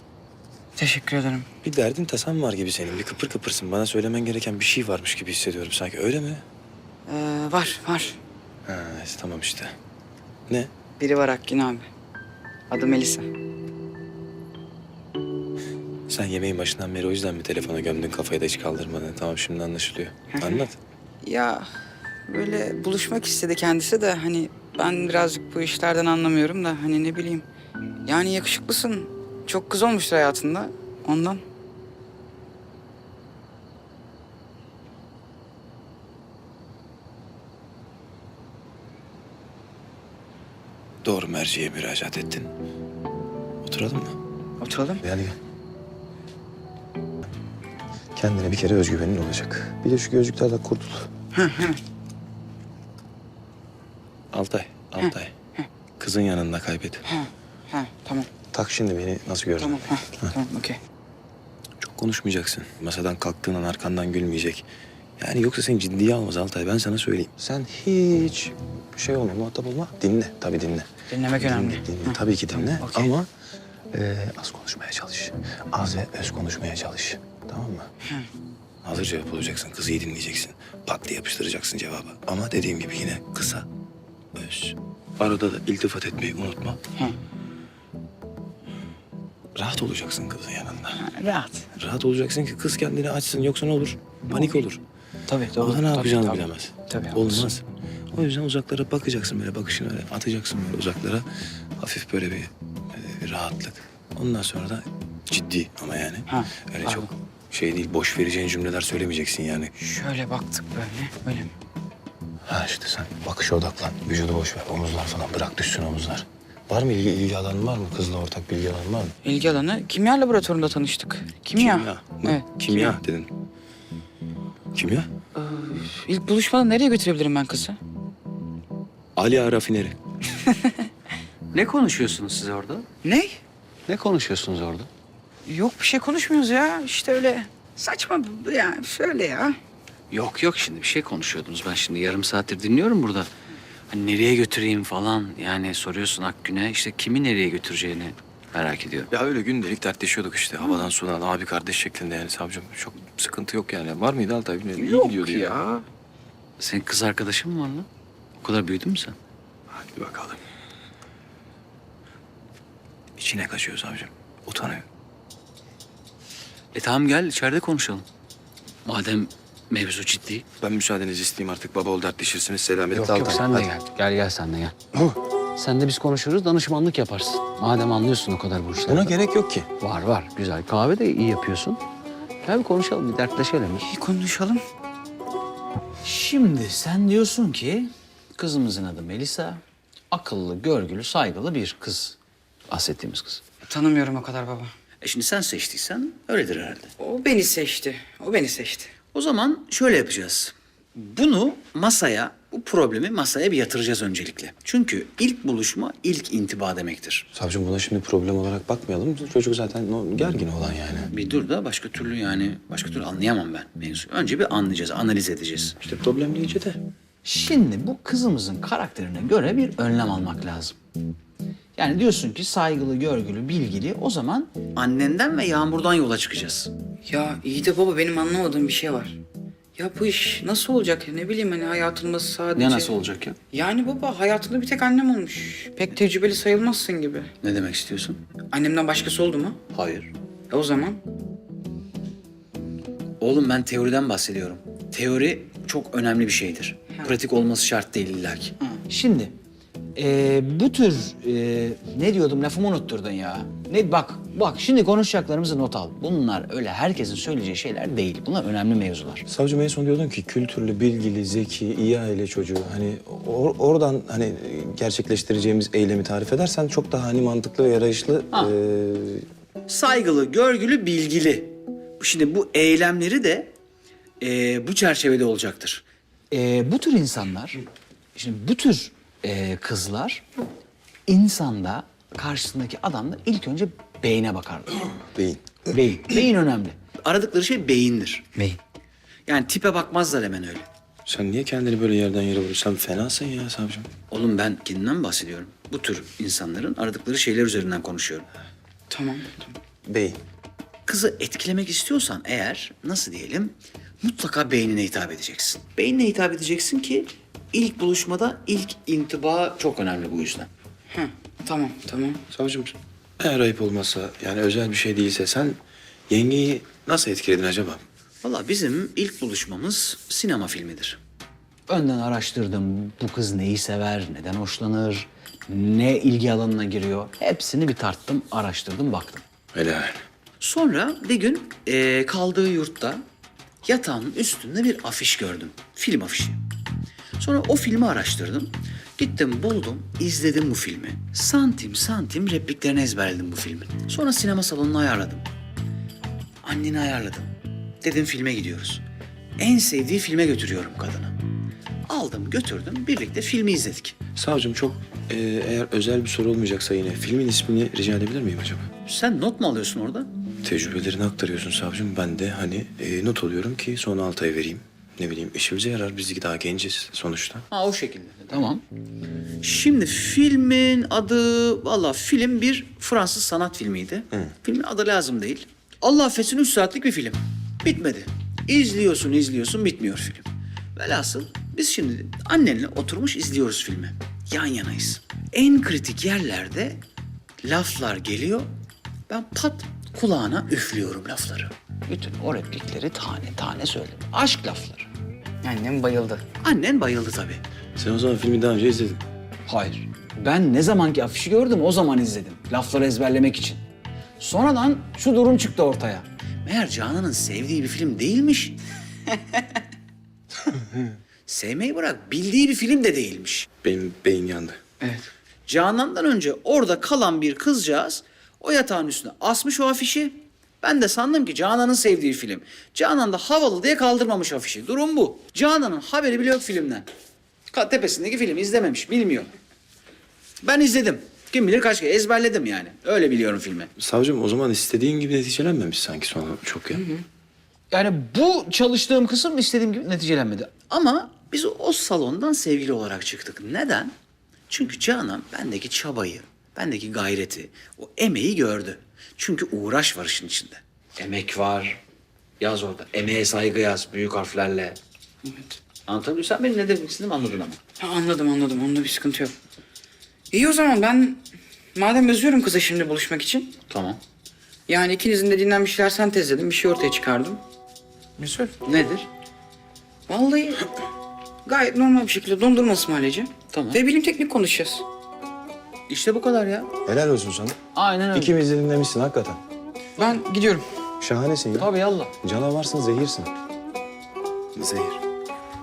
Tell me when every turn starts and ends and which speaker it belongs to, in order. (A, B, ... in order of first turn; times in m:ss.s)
0:00.8-0:01.5 A
0:01.6-0:06.4 B
0:07.1-0:08.2 A
0:08.7-0:09.7 B
0:11.0-0:11.9 A
0:12.7-0:13.3 A
0:16.1-0:20.8 B
0:20.3-0:20.6 A
0:21.2-0:21.7 A
0:22.3-0:27.4 A
0:28.1-0:31.4 A
0:41.0-0:42.5 B
0:43.6-0:44.2 B
0:44.6-0:45.0 A
0:45.0-0:45.4 B
0:48.2-0:51.1 B
0:51.3-0:51.8 A
0:54.3-0:55.3 B
0:55.0-0:55.7 A
0:56.0-0:57.0 B
0:57.1-0:58.3 A
0:58.5-1:00.3 B
0:59.6-1:00.8 A
1:01.8-1:04.7 B
1:05.2-1:10.9 B
1:11.1-1:13.1 A
1:11.4-1:13.3 B
1:13.9-1:17.9 B
1:18.8-1:23.7 B
1:24.4-1:26.8 B
1:29.6-1:31.0 B
1:31.0-1:31.7 A
1:31.7-1:34.8 B
1:35.3-1:37.5 A
1:35.5-1:41.3 B
1:41.8-1:49.7 B
1:46.3-1:47.1 A
1:49.8-1:51.5 A
1:52.5-1:59.1 B
1:59.2-2:03.0 A
2:01.6-2:03.3 B
2:04.7-2:05.1 B
2:05.4-2:07.8 A
2:09.2-2:10.0 B
2:11.5-2:12.9 C
2:13.0-2:13.4 A
2:13.9-2:14.9 C
2:15.5-2:19.6 A
2:20.1-2:23.3 C
2:23.9-2:29.1 C
2:29.1-2:35.6 B
2:34.8-2:35.8 A
2:36.6-2:37.9 C
2:38.4-2:39.2 C
2:39.7-2:40.4 B
2:43.2-2:44.8 B
2:46.7-2:48.1 C
2:48.9-2:50.4 C
2:50.6-2:53.7 B
2:52.9-2:55.0 C
2:55.6-2:59.2 C
2:58.9-2:59.7 B
2:59.8-3:01.8 C
3:02.4-3:03.9 C
3:03.8-3:04.6 A
3:06.0-3:12.2 C
3:12.7-3:13.4 C
3:13.7-3:14.7 A
3:15.0-3:16.9 C
3:17.0-3:18.9 A
3:19.1-3:27.3 C
3:27.3-3:31.1 B
3:31.1-3:35.8 C
3:35.8-3:36.8 B
3:37.2-3:40.8 C
3:41.8-3:46.7 C
3:47.1-3:49.2 A
3:49.8-3:52.9 A
3:52.6-3:53.4 C
3:53.5-3:57.3 A
3:57.4-3:58.2 C
3:58.5-3:59.6 A
3:59.7-4:00.1 C
4:00.5-4:01.0 A
4:03.2-4:09.4 C
4:10.0-4:19.2 C
4:19.3-4:29.3 B
4:29.7-4:33.5 C
4:34.2-4:37.6 C
4:38.2-4:40.2 C
4:41.1-4:44.9 C
4:45.1-4:45.6 B
4:45.7-4:48.6 C
4:49.3-4:50.7 C
4:51.1-4:53.9 B
4:54.1-4:58.3 C
4:58.9-4:59.6 A
4:59.9-5:00.2 B
5:00.9-5:10.5 C
5:10.9-5:12.2 A
5:12.3-5:15.6 B
5:16.1-5:17.8 B
5:18.2-5:21.0 C
5:21.7-5:29.2 C
5:29.5-5:30.0 B
5:30.4-5:33.0 C
5:33.6-5:36.4 C
5:37.2-5:45.3 C
5:46.4-5:47.3 C
5:47.8-5:48.8 C
5:49.4-5:51.2 C
5:51.9-5:54.0 C
5:54.2-5:58.7 B
5:58.8-6:00.1 C
6:00.4-6:07.5 B
6:07.5-6:08.6 C
6:09.4-6:26.8 C
6:27.4-6:28.5 C
6:29.1-6:34.9 C
6:35.4-6:36.2 A
6:36.4-6:37.4 C
6:37.8-6:39.0 B
6:39.5-6:43.6 C
6:44.2-6:48.6 C
6:51.3-6:53.5 C
6:53.6-6:54.6 B
6:54.8-6:55.1 A
6:55.5-7:06.9 C
7:07.5-7:09.3 C
7:10.4-7:13.7 C
7:13.8-7:16.8 B
7:16.8-7:17.0 A
7:17.7-7:23.9 C
7:24.5-7:31.8 C
7:32.4-7:34.8 C
7:35.2-7:35.6 A
7:35.9-7:37.6 C
7:37.8-7:39.3 A
7:40.3-7:41.2 A
7:41.8-7:43.6 A
7:43.7-7:44.0 C
7:44.7-7:47.4 A
7:48.2-7:49.1 C
7:50.1-7:50.7 A
7:51.4-7:54.8 A
7:53.5-7:53.8 C
7:55.9-7:56.7 C
7:56.9-7:57.6 B
7:57.7-7:58.4 C
7:58.1-7:59.4 B
8:00.0-8:00.6 A
8:01.0-8:03.3 B
8:01.6-8:02.1 C
8:04.6-8:05.0 B